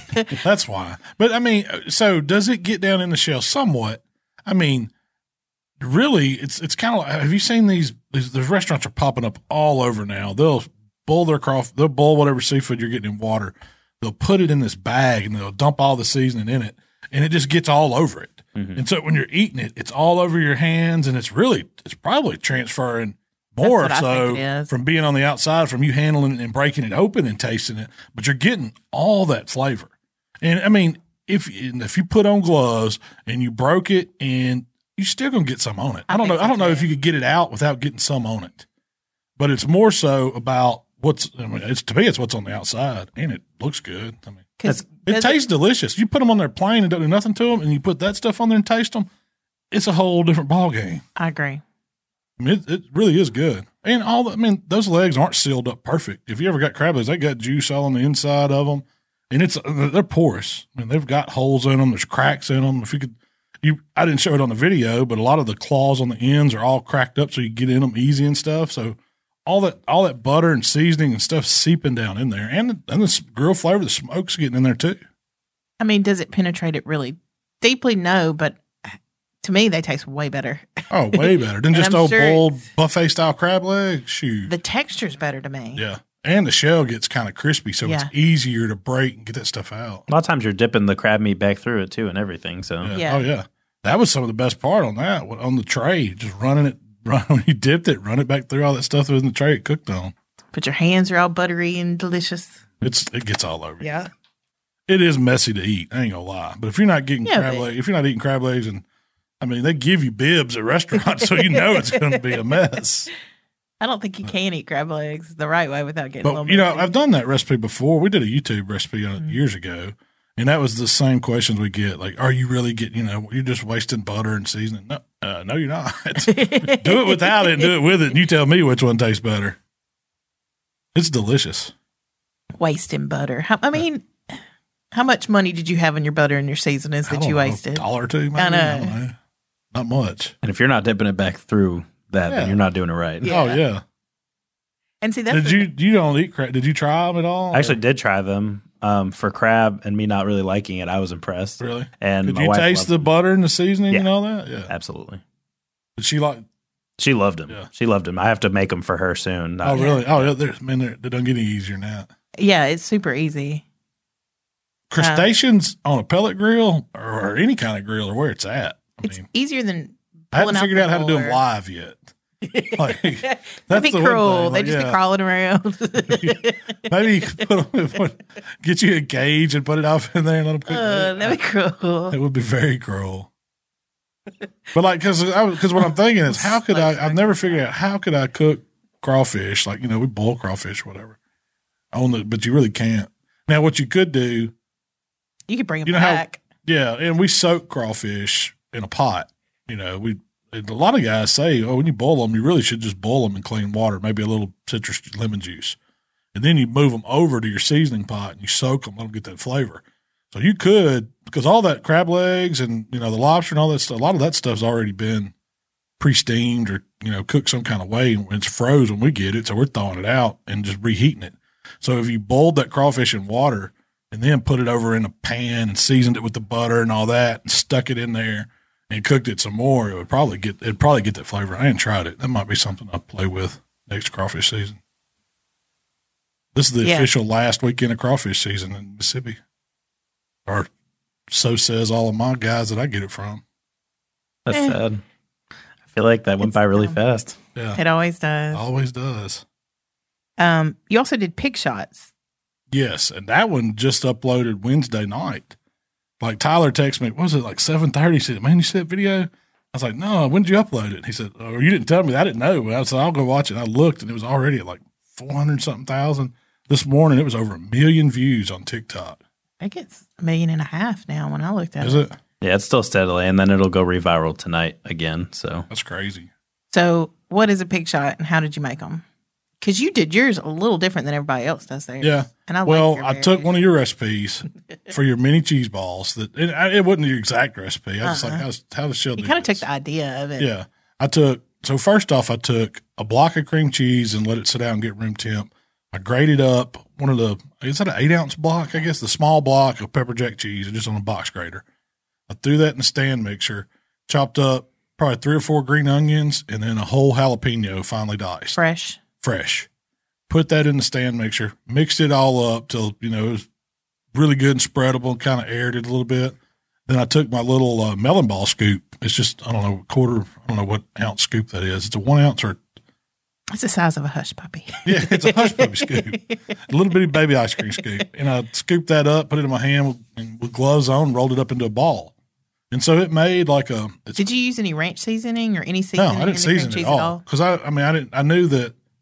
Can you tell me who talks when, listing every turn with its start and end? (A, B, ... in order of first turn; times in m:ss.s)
0:00.3-0:04.9 A
0:05.8-0:38.7 A
0:18.6-0:18.8 B
0:23.6-0:24.7 C
0:36.1-0:36.9 C
0:39.4-0:49.1 A
0:44.6-0:45.4 C
0:49.7-0:51.0 A
0:51.2-0:51.6 C
0:52.4-1:15.0 A
1:15.8-1:22.6 C
1:20.9-1:24.5 A
1:24.5-1:25.8 C
1:25.8-1:30.0 A
1:27.8-1:28.1 C
1:30.1-1:32.9 B
1:32.8-1:40.1 A
1:32.9-1:33.3 C
1:40.5-1:42.6 C
1:42.8-1:43.8 A
1:43.8-1:44.1 C
1:44.9-1:48.8 A
1:47.2-1:47.7 C
1:49.4-1:53.1 A
1:51.2-1:52.4 C
1:53.8-1:56.9 C
1:56.2-2:09.6 A
2:06.3-2:07.7 C
2:11.0-2:11.7 A
2:12.6-2:14.4 C
2:14.9-2:19.0 C
2:17.1-2:19.2 A
2:19.7-2:20.4 A
2:20.4-2:23.3 B
2:22.3-2:22.6 A
2:23.2-2:23.6 C
2:23.2-2:23.8 A
2:25.0-2:25.7 C
2:25.3-2:27.8 A
2:27.5-2:33.1 B
2:31.6-2:34.7 A
2:34.7-2:35.2 B
2:36.0-2:36.4 A
2:37.0-2:40.3 B
2:39.6-2:42.1 A
2:39.8-2:40.0 C
2:42.4-2:43.6 C
2:44.9-2:49.3 A
2:45.0-2:45.3 C
2:49.0-2:51.4 C
2:50.3-2:52.1 A
2:52.4-2:56.8 C
2:52.7-2:55.0 A
2:56.1-3:01.4 A
3:00.7-3:02.2 C
3:02.1-3:03.3 A
3:04.7-3:11.2 A
3:06.3-3:07.6 C
3:11.9-3:14.5 A
3:15.5-3:16.4 C
3:15.9-3:25.8 A
3:26.3-3:35.3 A
3:36.0-3:54.8 A
3:56.6-3:59.4 A
3:56.8-3:57.1 C
4:01.3-4:03.4 A
4:04.5-4:05.0 B
4:04.5-4:04.8 C
4:05.9-4:07.4 B
4:06.4-4:07.0 C
4:07.6-4:07.8 A
4:07.8-4:08.6 C
4:08.5-4:09.4 A
4:10.4-4:12.1 C
4:12.7-4:15.6 A
4:16.2-4:29.2 A
4:29.6-4:32.0 C
4:31.8-4:32.2 A
4:32.4-4:35.7 B
4:35.7-4:36.3 A
4:36.7-4:39.0 C
4:39.6-4:43.6 C
4:42.0-4:49.6 A
4:48.0-4:48.5 C
4:49.2-4:50.5 C
4:50.4-5:01.6 A
5:02.3-5:08.6 A
5:08.6-5:09.0 C
5:09.2-5:09.7 A
5:10.3-5:13.5 A
5:14.1-5:16.4 A
5:16.9-5:22.6 A
5:23.5-5:26.4 C
5:24.8-5:32.1 A
5:32.7-5:34.2 A
5:34.2-5:37.2 C
5:36.0-5:38.7 A